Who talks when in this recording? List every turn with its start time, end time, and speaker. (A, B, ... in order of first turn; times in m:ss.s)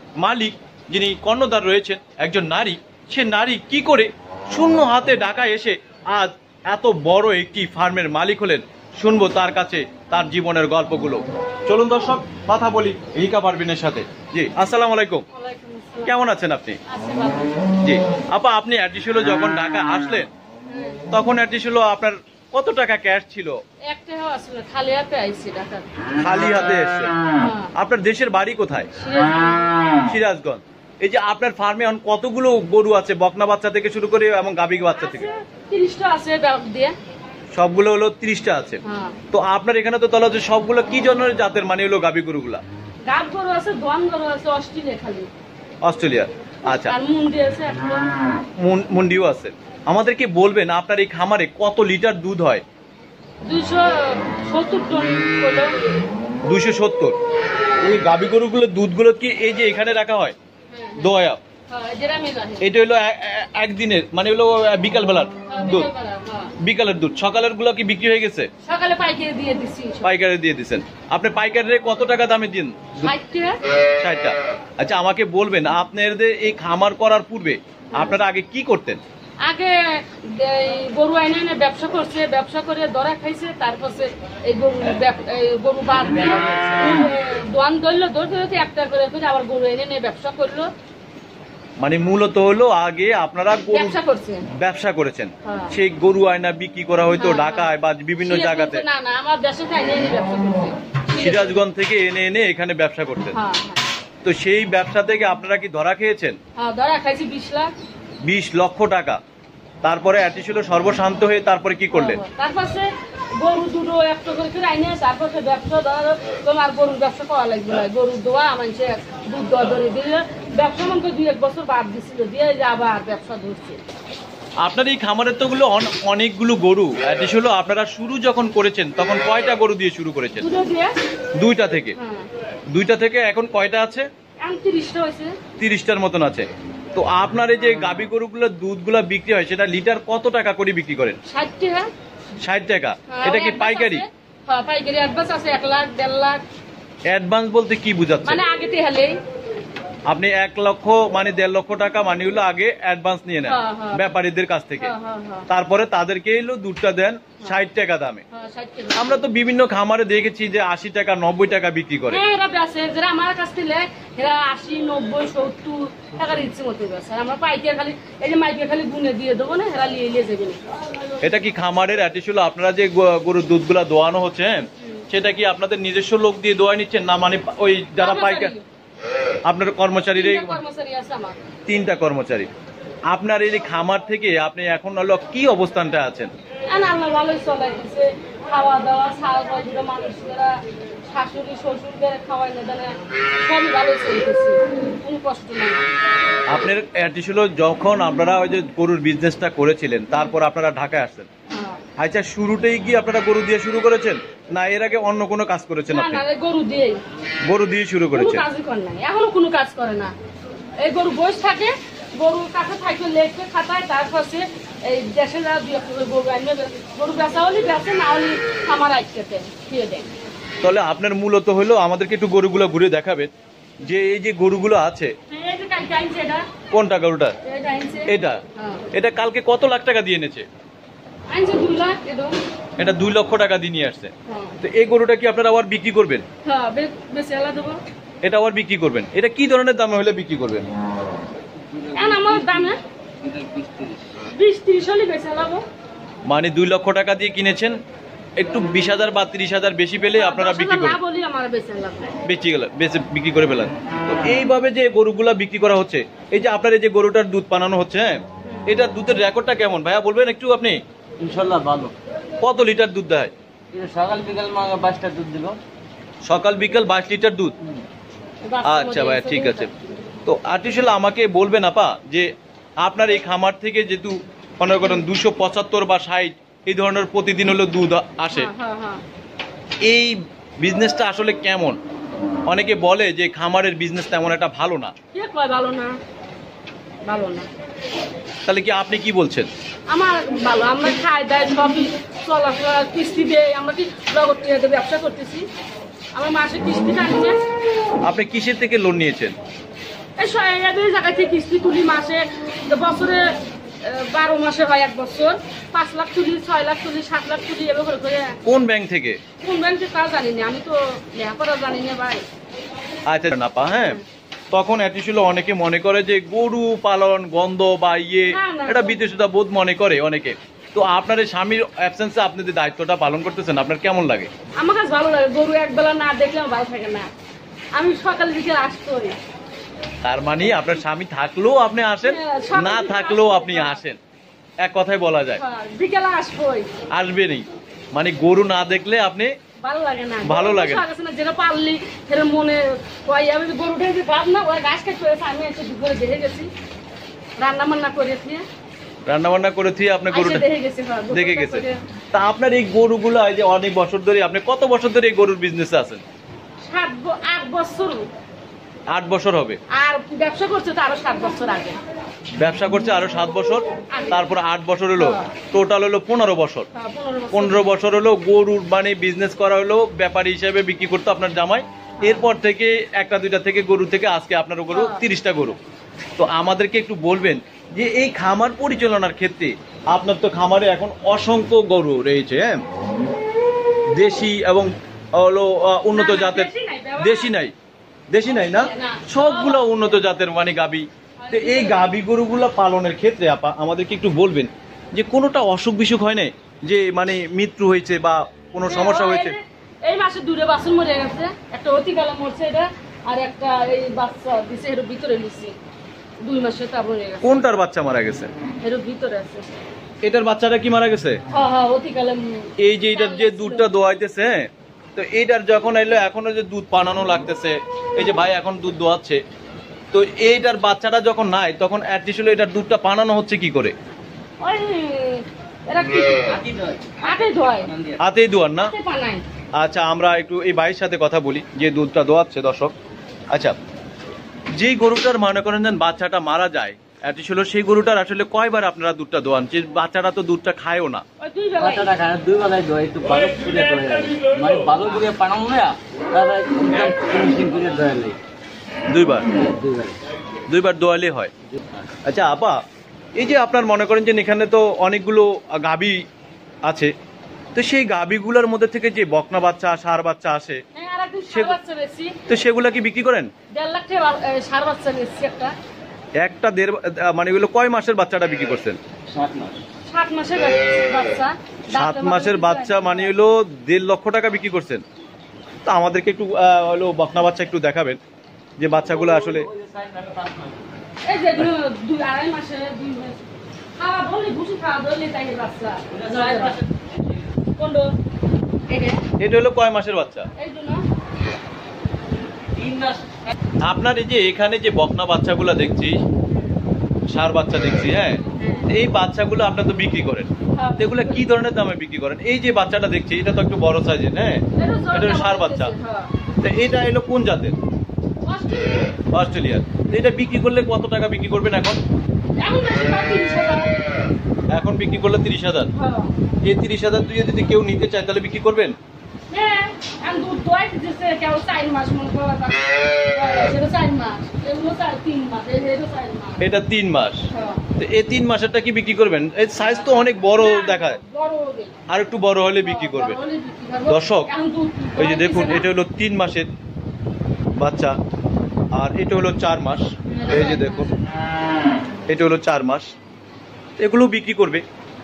0:00.2-0:15.2 A
0:15.3-0:16.2 B
0:16.1-0:16.8 A
0:16.9-0:17.7 B
0:17.8-0:20.3 A
0:20.7-0:21.0 B
0:21.1-0:23.6 A
0:23.9-0:25.9 B
0:26.2-0:27.2 A
0:27.4-0:27.7 B
0:27.8-0:28.9 A
0:28.9-0:29.9 B
0:30.0-0:35.3 A
0:35.0-0:37.0 B
0:37.5-0:38.8 A
0:38.8-0:39.2 B
0:39.3-0:42.6 A
0:43.0-0:45.3 B
0:45.8-0:47.0 A
0:46.7-0:48.2 B
0:48.6-0:52.6 A
0:53.4-0:55.8 B
0:56.5-0:57.2 A
0:57.8-1:00.4 A
1:00.7-1:01.1 B
1:01.0-1:01.4 A
1:01.7-1:02.7 B
1:02.6-1:05.9 A
1:05.5-1:06.6 B
1:06.6-1:08.5 A
1:08.6-1:10.1 B
1:10.0-1:13.1 A
1:13.0-1:13.6 B
1:14.0-1:19.0 A
1:19.4-1:30.7 B
1:26.4-1:26.7 A
1:31.8-1:34.0 A
1:33.7-1:34.5 B
1:34.6-1:38.8 A
1:35.4-1:35.7 B
1:37.2-1:41.6 B
1:41.2-1:43.4 A
1:43.3-1:43.8 B
1:44.2-1:46.4 A
1:46.6-1:47.7 B
1:48.2-1:49.2 A
1:49.8-1:52.2 A
1:51.9-1:52.9 B
1:53.4-2:03.8 B
2:04.6-2:10.5 A
2:10.4-2:11.0 B
2:11.4-2:12.0 A
2:12.0-2:12.3 B
2:12.7-2:14.1 A
2:14.4-2:15.4 B
2:15.6-2:21.2 A
2:21.3-2:21.9 B
2:22.4-2:24.1 A
2:23.1-2:26.4 B
2:27.1-2:28.4 A
2:28.2-2:29.2 B
2:30.1-2:34.9 A
2:33.4-2:34.1 B
2:34.8-2:35.5 B
2:35.5-2:38.2 A
2:38.3-2:39.3 B
2:39.0-2:42.2 A
2:42.1-2:50.6 B
2:51.2-2:58.5 A
2:54.8-2:55.1 B
2:58.0-2:58.6 B
2:59.5-3:00.6 A
3:00.2-3:01.4 B
3:01.7-3:02.5 A
3:03.1-3:06.3 A
3:06.7-3:15.9 B
3:16.5-3:21.3 A
3:21.5-3:21.8 B
3:22.0-3:26.2 A
3:25.9-3:27.0 B
3:27.5-3:28.4 A
3:28.1-3:30.1 B
3:30.8-3:40.1 B
3:40.6-3:43.3 A
3:43.8-3:45.1 A
3:45.3-3:46.5 B
3:46.7-3:47.4 A
3:47.4-3:48.9 B
3:48.1-3:48.4 A
3:48.9-3:50.5 A
3:51.3-3:52.4 B
3:52.8-3:56.3 A
3:54.3-3:54.6 B
3:56.4-3:57.8 B
3:58.2-4:00.6 A
4:01.6-4:04.1 C
4:01.9-4:02.8 B
4:04.3-4:05.6 B
4:06.3-4:07.8 A
4:08.4-4:11.0 A
4:10.2-4:12.2 B
4:12.2-4:20.8 A
4:21.2-4:21.9 C
4:22.4-4:23.3 A
4:23.7-4:25.6 C
4:26.2-4:27.5 A
4:28.4-4:29.7 B
4:28.6-4:29.7 A
4:30.2-4:38.5 A
4:38.3-4:39.0 B
4:39.8-4:41.8 A
4:42.5-4:44.9 A
4:45.1-4:46.0 B
4:47.0-4:47.5 B
4:48.5-4:49.5 A
4:49.9-4:55.5 B
4:56.2-4:57.4 B
4:58.0-4:59.4 A
5:00.2-5:08.4 B
5:08.5-5:09.2 A
5:09.4-5:12.2 B
5:13.1-5:14.0 A
5:14.5-5:24.3 A
5:18.3-5:19.1 B
5:24.6-5:27.1 B
5:27.8-5:29.2 B
5:30.0-5:34.0 A
5:32.0-5:33.8 B
5:34.6-5:35.4 A
5:35.4-5:36.7 B
5:36.9-5:39.3 A
5:39.6-5:46.5 B
5:40.2-5:40.8 A
5:47.4-5:48.4 B
5:49.1-5:50.5 A
5:50.1-5:51.8 B
5:51.1-5:56.0 A
5:56.7-5:58.1 B
5:58.9-5:59.6 A
5:59.7-6:01.8 B
6:02.4-6:06.7 A
6:03.9-6:04.3 B
6:05.0-6:05.3 B
6:06.7-6:07.7 B
6:07.3-6:15.6 A
6:14.7-6:15.0 B
6:16.2-6:22.6 A
6:24.0-6:27.5 A
6:25.9-6:27.3 B
6:28.1-6:39.4 A
6:28.3-6:29.8 B
6:31.2-6:31.9 B
6:38.6-6:45.6 B
6:46.2-6:47.4 B
6:47.2-6:48.3 A
6:48.6-6:49.4 B
6:50.0-6:51.2 A
6:51.3-6:53.7 B
6:52.6-6:59.2 A
6:59.9-7:03.7 A
7:04.4-7:06.5 B
7:06.4-7:07.0 C
7:07.0-7:07.7 B
7:07.7-7:08.0 C
7:08.0-7:08.7 A
7:08.6-7:09.2 B
7:09.6-7:12.7 A
7:13.3-7:13.6 A
7:14.5-7:21.0 A
7:21.2-7:22.0 B
7:21.6-7:28.2 C
7:28.9-7:29.3 A
7:29.3-7:30.0 C
7:30.5-7:31.3 A
7:32.0-7:32.6 A
7:33.2-7:36.0 A
7:36.7-7:36.9 A
7:37.6-7:40.6 A
7:40.8-7:42.2 B
7:41.3-7:41.6 A
7:42.3-7:43.3 A
7:43.5-7:45.5 B
7:46.2-7:48.8 A
7:49.1-7:49.6 C
7:49.9-7:53.1 B
7:51.7-7:54.8 A
7:55.6-7:58.0 A
7:58.6-7:59.5 A
7:59.5-8:00.6 C
8:01.1-8:03.2 B
8:03.8-8:06.6 B
8:05.9-8:06.7 C
8:07.6-8:07.9 B
8:08.7-8:09.0 B
8:09.2-8:10.3 A
8:10.4-8:10.8 B
8:12.6-8:13.0 C
8:13.6-8:16.0 A
8:17.1-8:24.4 A
8:18.4-8:18.7 B
8:20.6-8:21.2 B
8:24.6-8:26.1 B
8:24.9-8:25.7 A
8:26.4-8:27.6 A
8:28.2-8:29.0 B
8:29.1-8:31.8 A
8:32.4-8:33.7 B
8:34.5-8:35.7 A
8:35.7-8:36.1 B
8:36.4-8:38.7 A
8:39.3-8:46.5 B
8:46.4-8:47.2 A
8:47.3-8:47.6 B
8:47.8-8:51.0 A
8:49.9-8:51.8 B
8:51.9-8:53.2 A
8:52.6-8:55.7 B
8:53.9-8:54.3 A
8:55.0-8:56.5 A
8:57.6-8:58.0 A
8:58.8-9:00.9 A
9:00.1-9:00.9 B
9:02.1-9:02.9 A
9:03.8-9:04.6 A